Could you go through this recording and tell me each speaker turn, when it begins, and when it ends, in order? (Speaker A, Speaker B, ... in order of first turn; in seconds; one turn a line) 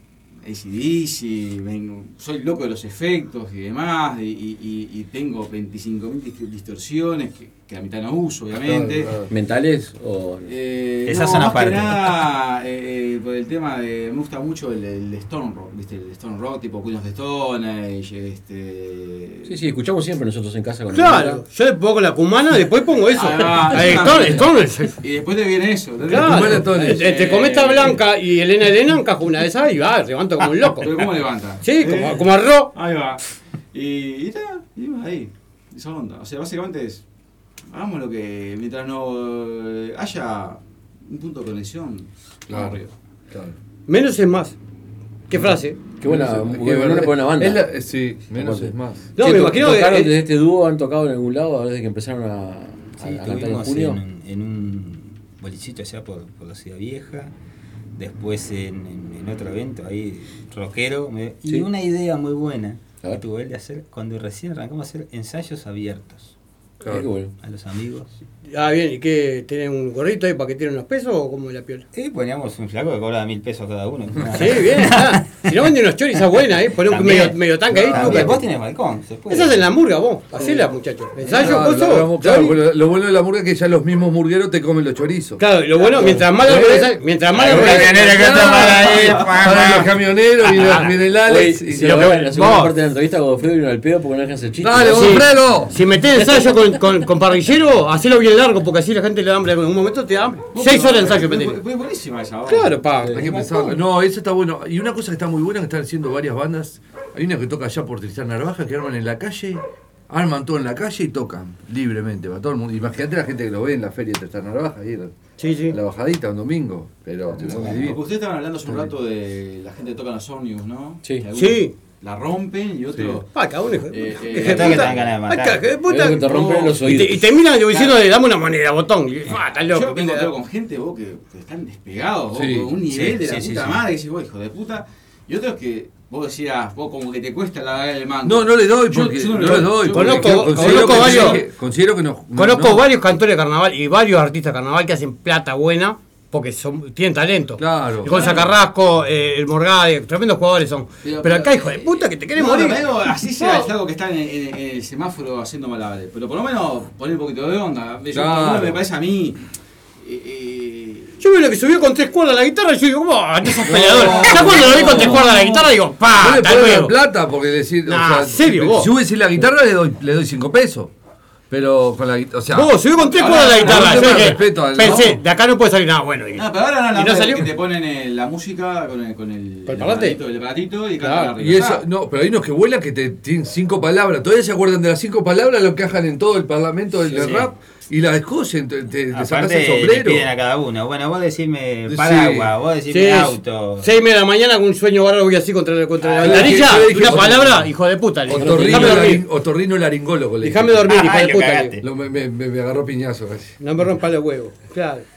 Speaker A: 0.4-9.1
Speaker B: 8.6-9.3
Speaker C: 9.3-10.5
Speaker A: 10.4-19.6
Speaker D: 11.1-12.1
Speaker C: 19.4-21.4
Speaker E: 20.9-24.9
Speaker A: 23.1-28.0
Speaker B: 26.1-27.1
Speaker E: 26.1-31.0
Speaker A: 30.8-33.2
Speaker E: 31.6-32.7
Speaker A: 33.7-37.0
Speaker A: 37.7-42.9
Speaker B: 42.5-43.5
Speaker E: 43.9-44.5
Speaker E: 45.3-45.8
Speaker C: 46.0-47.7
Speaker B: 46.0-49.1
Speaker C: 48.3-54.0
Speaker E: 49.2-50.2
Speaker D: 53.0-57.3
Speaker D: 58.0-66.3
Speaker B: 66.8-67.1
Speaker C: 66.8-67.3
Speaker D: 67.4-68.1
Speaker E: 68.5-71.8
Speaker D: 71.9-75.6
Speaker E: 74.3-78.5
Speaker D: 76.7-79.6
Speaker B: 77.7-78.4
Speaker E: 79.3-82.5
Speaker B: 81.2-85.4
Speaker E: 85.4-88.1
Speaker B: 86.0-92.2
Speaker D: 87.3-89.9
Speaker A: 89.0-89.3
Speaker E: 90.4-91.0
Speaker C: 91.2-95.3
Speaker E: 91.7-92.7
Speaker B: 94.6-95.7
Speaker E: 94.9-101.6
Speaker C: 96.1-96.8
Speaker A: 100.5-102.9
Speaker E: 102.5-103.7
Speaker C: 103.0-103.4
Speaker B: 103.1-115.1
Speaker E: 115.4-115.8
Speaker B: 115.7-118.0
Speaker A: 117.4-123.3
Speaker E: 121.3-121.7
Speaker B: 122.9-123.2
Speaker E: 123.3-130.3
Speaker A: 123.9-125.1
Speaker D: 124.3-125.7
Speaker C: 125.9-127.3
Speaker A: 126.2-126.8
Speaker A: 127.7-128.0
Speaker A: 129.3-141.4
Speaker B: 132.3-133.8
Speaker D: 132.8-133.8
Speaker B: 138.2-142.8
Speaker E: 139.9-141.4
Speaker E: 142.3-153.7
Speaker B: 147.6-148.4
Speaker A: 148.1-148.5
Speaker A: 151.0-159.4
Speaker B: 158.1-158.8
Speaker A: 160.0-161.2
Speaker E: 161.2-166.9
Speaker B: 163.7-165.3
Speaker A: 164.0-165.7
Speaker B: 166.2-170.9
Speaker E: 167.8-168.9
Speaker B: 171.5-175.2
Speaker E: 172.5-177.5
Speaker A: 173.0-175.1
Speaker A: 176.3-181.8
Speaker E: 179.7-180.2
Speaker E: 181.0-181.3
Speaker B: 181.4-190.3
Speaker D: 187.1-187.5
Speaker D: 189.1-193.9
Speaker B: 191.9-192.5
Speaker E: 192.9-199.2
Speaker D: 196.0-196.7
Speaker B: 196.2-197.7
Speaker B: 198.3-200.9
Speaker C: 198.4-199.1
Speaker E: 200.4-201.8
Speaker D: 200.8-201.8
Speaker B: 201.8-203.6
Speaker E: 203.6-205.0